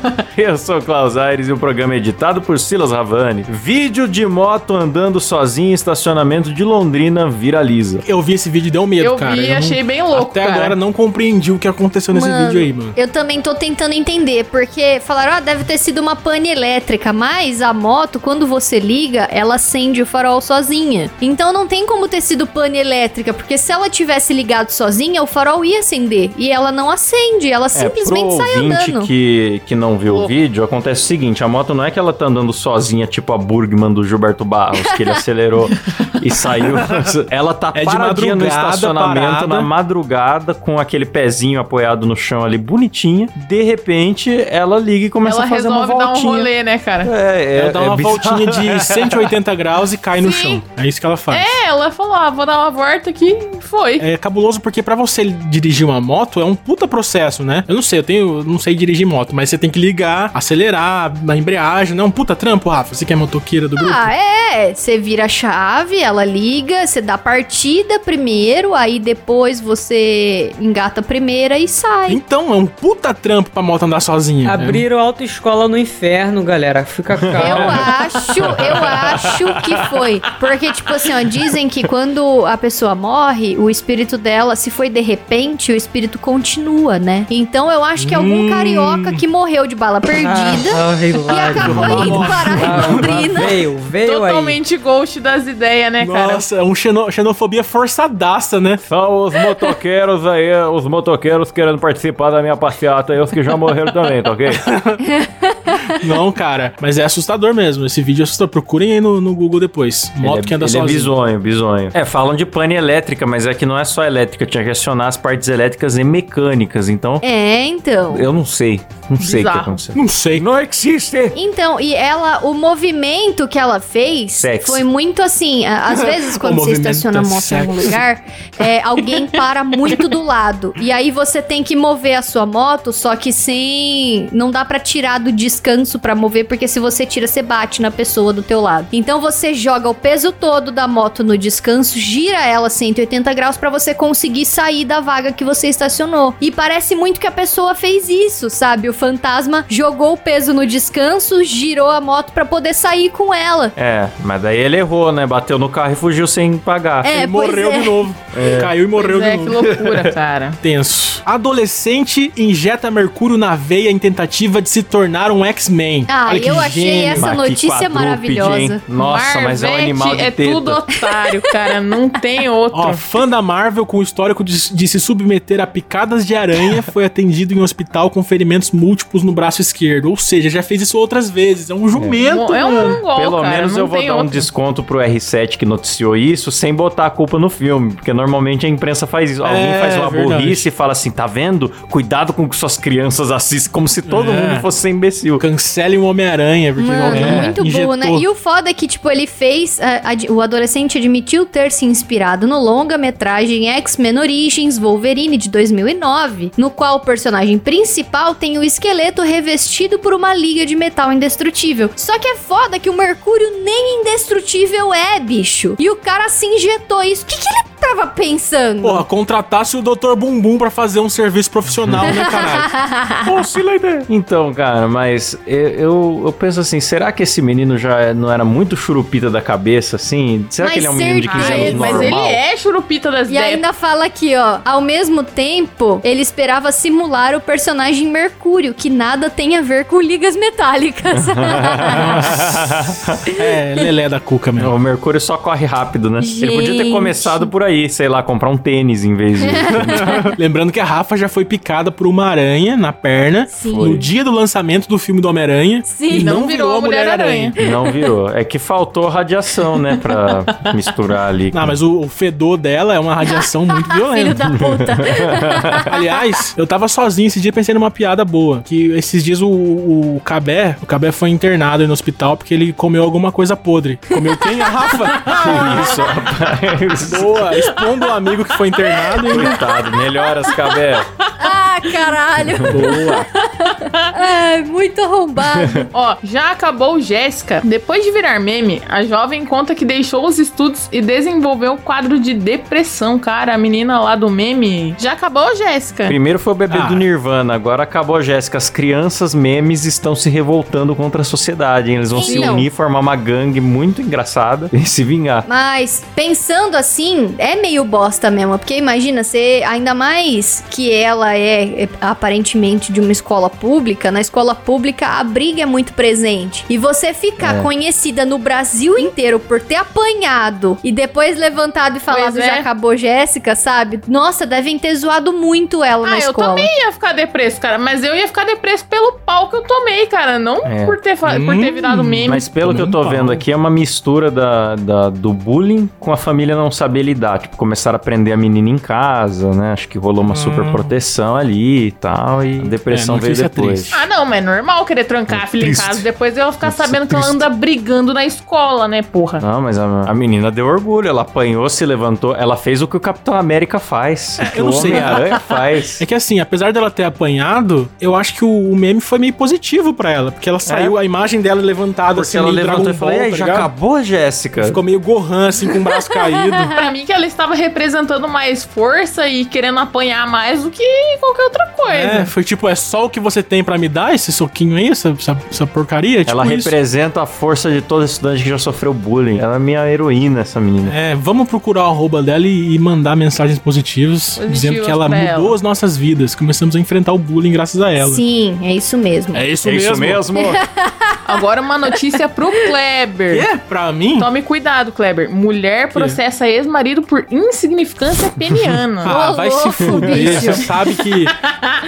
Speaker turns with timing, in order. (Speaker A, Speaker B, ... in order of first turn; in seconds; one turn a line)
Speaker A: 0.3-8.1
Speaker B: 8.1-12.9
Speaker C: 9.0-10.8
Speaker D: 12.1-29.1
Speaker A: 27.7-46.5
Speaker C: 30.1-30.4
Speaker D: 34.8-35.2
Speaker B: 37.7-39.7
Speaker C: 45.2-47.1
Speaker A: 47.0-49.3
Speaker B: 47.6-51.6
Speaker C: 50.2-50.6
Speaker C: 51.3-54.1
Speaker B: 54.0-64.1
Speaker D: 63.8-72.2
Speaker B: 72.1-74.8
Speaker E: 74.4-77.9
Speaker A: 77.2-79.6
Speaker D: 77.4-93.6
Speaker B: 88.0-89.2
Speaker E: 90.1-94.6
Speaker B: 91.6-93.1
Speaker A: 91.6-92.5
Speaker C: 94.0-96.5
Speaker B: 96.0-98.8
Speaker A: 98.9-104.6
Speaker B: 104.5-105.0
Speaker D: 105.1-105.9
Speaker B: 105.8-111.1
Speaker A: 110.2-117.2
Speaker D: 117.2-118.3
Speaker A: 118.1-121.4
Speaker C: 119.2-119.8
Speaker B: 120.0-120.5
Speaker D: 121.3-153.8
Speaker A: 124.4-124.8
Speaker B: 125.9-128.0
Speaker A: 153.8-157.1
Speaker D: 157.0-158.1
Speaker B: 157.1-159.6
Speaker A: 158.3-158.7
Speaker C: 158.9-160.6
Speaker A: 159.6-160.1
Speaker B: 160.6-167.3
Speaker D: 166.1-168.8
Speaker A: 167.2-170.8
Speaker C: 169.0-173.1
Speaker B: 172.7-183.0
Speaker A: 181.9-182.2
Speaker C: 182.2-184.5
Speaker A: 182.7-195.4
Speaker B: 189.4-190.7
Speaker B: 194.1-194.7
Speaker B: 195.4-198.3
Speaker D: 196.8-219.0
Speaker A: 197.1-197.5
Speaker B: 218.8-222.7
Speaker D: 222.0-223.3
Speaker B: 223.3-224.1
Speaker A: 223.6-232.4
Speaker D: 230.6-232.2
Speaker C: 231.3-233.7
Speaker D: 233.3-242.3
Speaker A: 241.1-243.2
Speaker B: 241.9-242.6
Speaker B: 243.4-244.7
Speaker A: 244.6-250.3
Speaker D: 246.2-247.5
Speaker D: 249.4-250.3
Speaker B: 249.9-257.6
Speaker D: 253.5-254.1
Speaker A: 253.7-254.1
Speaker D: 255.9-256.4
Speaker C: 256.1-257.6
Speaker A: 257.6-261.8
Speaker D: 257.6-258.1
Speaker B: 261.5-264.5
Speaker D: 263.3-266.1
Speaker A: 264.7-265.7
Speaker B: 265.9-275.9
Speaker D: 274.4-275.2
Speaker A: 275.3-277.4
Speaker B: 277.0-279.6
Speaker D: 279.0-279.6
Speaker A: 279.3-281.1
Speaker C: 280.5-280.8
Speaker D: 281.4-285.9
Speaker A: 282.4-282.9
Speaker B: 282.7-283.3
Speaker A: 285.4-285.9
Speaker C: 285.9-296.2
Speaker A: 296.1-305.5
Speaker B: 296.7-297.1
Speaker D: 302.1-302.7
Speaker C: 302.2-302.6
Speaker D: 305.4-326.7
Speaker A: 317.4-317.7
Speaker C: 322.1-322.7
Speaker C: 326.0-332.4
Speaker A: 330.6-331.0
Speaker B: 331.3-333.4
Speaker A: 332.3-343.9
Speaker B: 340.3-340.9
Speaker B: 342.6-344.1
Speaker C: 343.9-349.4
Speaker A: 345.3-346.1
Speaker A: 346.6-347.4
Speaker A: 349.4-356.1
Speaker B: 354.4-355.3
Speaker B: 356.0-363.7
Speaker A: 360.7-361.0
Speaker A: 362.1-364.8
Speaker B: 364.6-366.7
Speaker D: 365.9-366.8
Speaker C: 366.8-372.3
Speaker B: 371.9-376.7
Speaker A: 376.3-380.9
Speaker B: 380.9-388.2
Speaker C: 384.4-385.6
Speaker D: 388.0-389.4
Speaker B: 389.3-390.2
Speaker A: 389.6-390.6
Speaker D: 390.4-391.2
Speaker C: 391.2-393.5
Speaker B: 393.3-394.3
Speaker C: 394.2-399.2
Speaker B: 395.9-396.2
Speaker B: 399.0-401.4
Speaker D: 399.1-400.7
Speaker A: 399.8-400.5